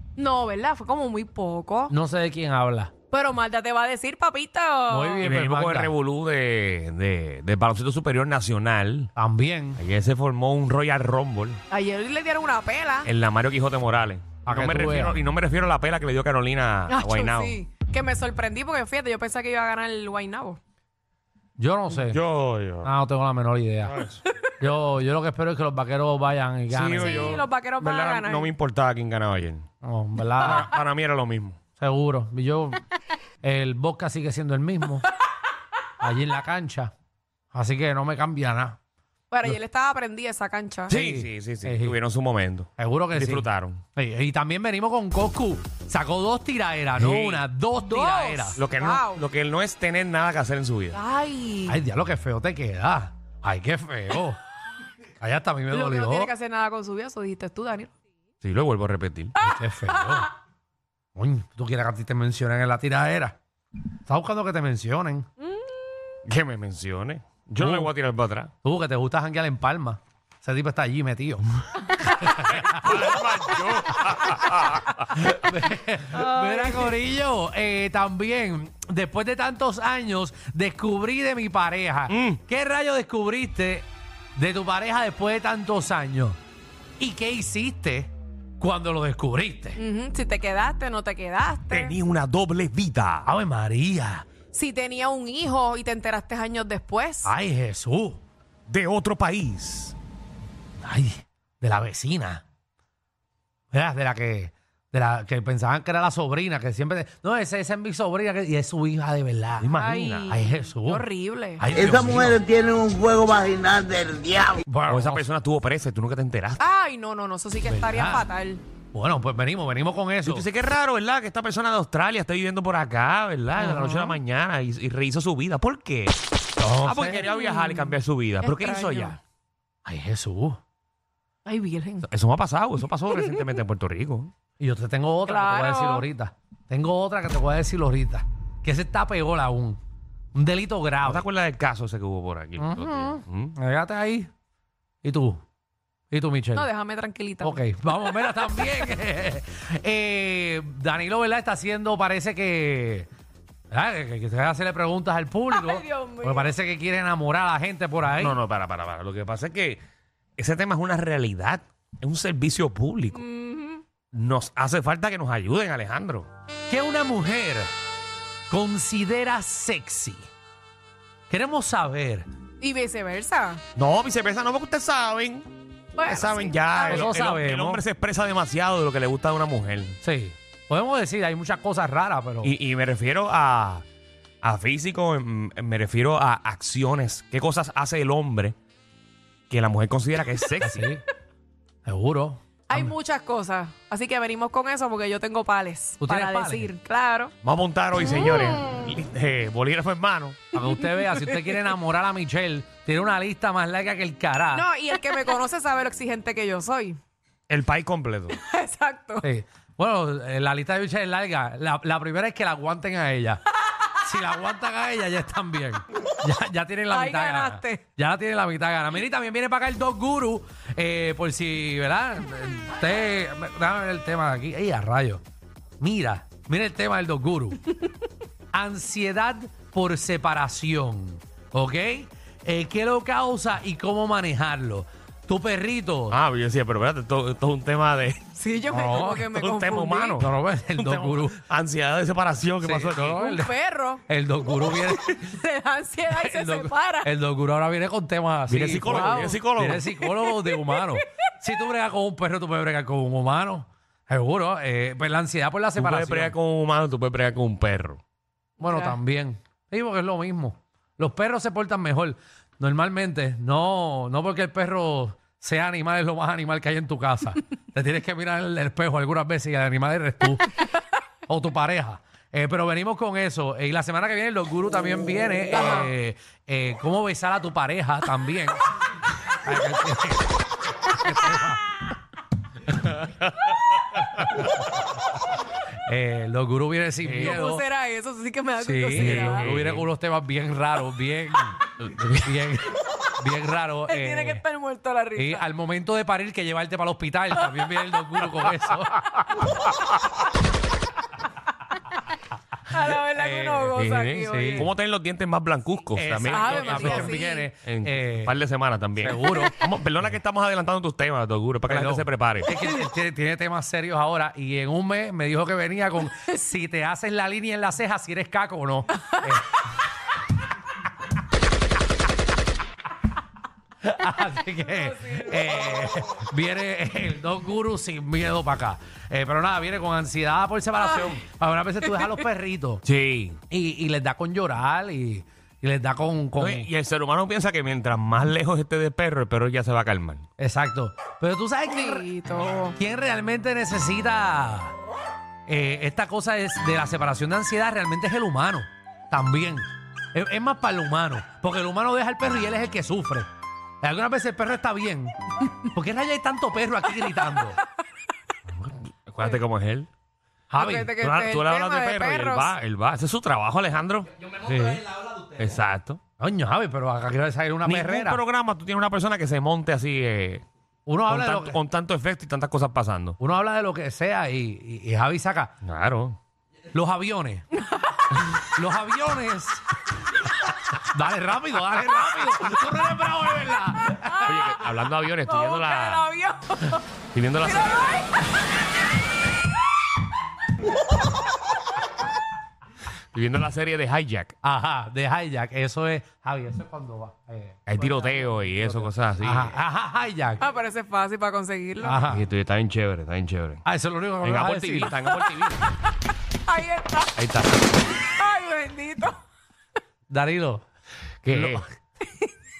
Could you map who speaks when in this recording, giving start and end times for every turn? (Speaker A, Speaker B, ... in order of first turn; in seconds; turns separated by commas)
Speaker A: 0.1-1.9, Speaker B: 1.9-2.9, Speaker A: 3.1-5.3, Speaker B: 4.9-5.9, Speaker C: 5.2-9.1, Speaker B: 9.2-9.8, Speaker C: 9.8-11.6, Speaker A: 11.7-13.1, Speaker C: 13.0-17.6, Speaker B: 14.4-15.2, Speaker A: 16.9-20.6, Speaker B: 21.6-22.2, Speaker C: 21.9-22.9, Speaker B: 22.8-24.0, Speaker C: 23.9-24.2, Speaker B: 24.6-27.4, Speaker C: 26.7-29.6, Speaker A: 26.9-28.5, Speaker B: 29.8-30.7, Speaker C: 30.4-31.6, Speaker B: 31.8-32.8, Speaker B: 33.4-35.1, Speaker B: 36.0-36.9, Speaker B: 37.5-38.8, Speaker A: 39.3-41.0, Speaker B: 40.9-42.0, Speaker C: 40.9-43.8, Speaker B: 42.8-48.6, Speaker C: 47.0-47.4, Speaker A: 47.8-49.2, Speaker C: 48.5-51.0, Speaker A: 50.9-51.8, Speaker B: 51.6-54.4, Speaker B: 55.2-56.3, Speaker A: 55.7-57.9, Speaker C: 58.4-59.3, Speaker B: 59.4-60.3, Speaker A: 59.4-60.2, Speaker B: 61.1-63.4, Speaker B: 64.1-65.3, Speaker C: 66.2-68.5, Speaker B: 67.6-67.9, Speaker B: 68.6-71.5, Speaker B: 72.2-72.8, Speaker C: 72.2-75.1, Speaker B: 75.1-86.4, Speaker A: 76.2-76.9, Speaker C: 82.1-82.4, Speaker B: 87.0-89.8, Speaker A: 89.8-92.0, Speaker C: 91.7-93.3, Speaker B: 93.2-94.2, Speaker A: 94.5-97.3, Speaker B: 97.2-98.2, Speaker C: 98.7-100.0, Speaker B: 100.8-102.4, Speaker B: 103.7-109.7, Speaker C: 109.6-110.3, Speaker A: 109.7-111.7, Speaker B: 110.3-111.1, Speaker B: 111.6-112.5, Speaker D: 111.8-114.6, Speaker B: 114.6-115.2, Speaker C: 114.9-116.6, Speaker A: 116.6-118.6, Speaker B: 117.6-118.3, Speaker B: 118.9-120.5, Speaker C: 120.2-126.2, Speaker B: 123.5-124.2, Speaker B: 126.6-127.3, Speaker C: 126.8-129.2, Speaker A: 127.2-129.2, Speaker B: 129.8-130.6, Speaker A: 131.4-132.1, Speaker C: 132.1-134.3, Speaker B: 134.6-139.8, Speaker A: 135.2-136.1, Speaker B: 140.3-141.2, Speaker C: 141.0-143.5, Speaker B: 142.6-144.3, Speaker B: 145.0-145.4, Speaker B: 146.1-146.7, Speaker A: 146.5-147.6, Speaker B: 147.4-153.1, Speaker B: 153.7-158.4, Speaker A: 155.5-156.5, Speaker C: 158.2-159.8, Speaker C: 160.4-163.2, Speaker A: 163.1-163.8, Speaker C: 164.1-166.3, Speaker B: 166.7-167.7, Speaker B: 168.5-170.2, Speaker B: 171.3-172.2, Speaker A: 172.6-173.6, Speaker C: 173.8-175.5, Speaker A: 175.9-177.1, Speaker C: 176.0-180.0, Speaker B: 176.8-177.8, Speaker B: 180.0-182.5, Speaker C: 182.4-183.8, Speaker C: 184.4-188.5, Speaker C: 189.5-190.8, Speaker B: 190.6-191.0, Speaker B: 191.8-192.9, Speaker A: 192.7-197.3, Speaker B: 196.0-196.7, Speaker C: 197.4-200.4, Speaker B: 200.5-204.7, Speaker A: 200.6-201.6, Speaker A: 204.5-207.0, Speaker C: 207.5-208.4, Speaker A: 208.4-209.2, Speaker B: 209.2-213.4, Speaker B: 213.9-225.2, Speaker A: 216.9-217.8, Speaker B: 225.8-227.6, Speaker B: 228.5-236.2, Speaker C: 236.1-238.2, Speaker A: 238.3-240.2, Speaker B: 238.7-239.3, Speaker C: 239.3-243.3, Speaker B: 240.2-241.4, Speaker B: 242.6-243.5, Speaker A: 243.1-244.0, Speaker B: 244.1-245.2, Speaker A: 245.0-247.1, Speaker B: 246.1-256.3, Speaker C: 248.5-249.9, Speaker A: 248.8-249.4, Speaker A: 250.1-250.9, Speaker C: 255.8-258.0, Speaker B: 258.6-270.5, Speaker A: 258.6-259.0, Speaker B: 271.3-278.6, Speaker B: 279.4-280.3, Speaker B: 280.9-281.6, Speaker B: 285.9-287.6, Speaker C: 287.0-287.4, Speaker A: 287.2-289.5, Speaker B: 288.6-294.4, Speaker C: 288.9-289.9, Speaker C: 291.8-292.3, Speaker A: 293.9-295.4, Speaker B: 295.1-299.0, Speaker A: 297.3-297.7, Speaker A: 302.7-304.7, Speaker B: 303.0-304.7, Speaker C: 303.7-312.5, Speaker B: 305.9-308.4, Speaker A: 306.2-307.5, Speaker B: 309.0-309.6, Speaker B: 311.7-319.4, Speaker B: 323.8-332.8, Speaker A: 324.6-326.2, Speaker C: 332.8-333.4, Speaker B: 333.5-336.7, Speaker C: 336.4-340.2, Speaker B: 340.4-342.1, Speaker A: 341.7-342.8, Speaker B: 342.8-344.7, Speaker B: 345.5-353.3, Speaker B: 353.8-357.6, Speaker C: 358.6-359.9, Speaker B: 360.5-360.9, Speaker A: 360.5-362.5, Speaker C: 361.0-364.3, Speaker B: 364.4-364.9, Speaker C: 365.4-366.0, Speaker B: 366.2-368.2, Speaker C: 367.6-370.4, Speaker B: 370.9-371.6, Speaker C: 371.1-373.2, Speaker B: 373.2-375.5, Speaker C: 375.6-376.2, Speaker B: 376.7-377.4, Speaker B: 378.3-379.6, Speaker B: 380.8-384.5, Speaker A: 383.8-384.6, Speaker C: 384.2-386.0, Speaker A: 385.2-386.8, Speaker C: 387.1-388.0, Speaker A: 387.4-388.1, Speaker C: 393.1-394.3, Speaker B: 394.4-400.4, Speaker C: 397.7-399.6, Speaker A: 400.4-402.0, Speaker B: 401.8-402.2, Speaker C: 402.1-403.6, Speaker B: 403.6-405.0, Speaker C: 404.2-405.6, Speaker A: 406.4-407.1, Speaker C: 407.1-407.8, Speaker A: 408.0-409.2, Speaker B: 410.1-410.6, Speaker C: 411.2-411.6, Speaker B: 411.3-411.7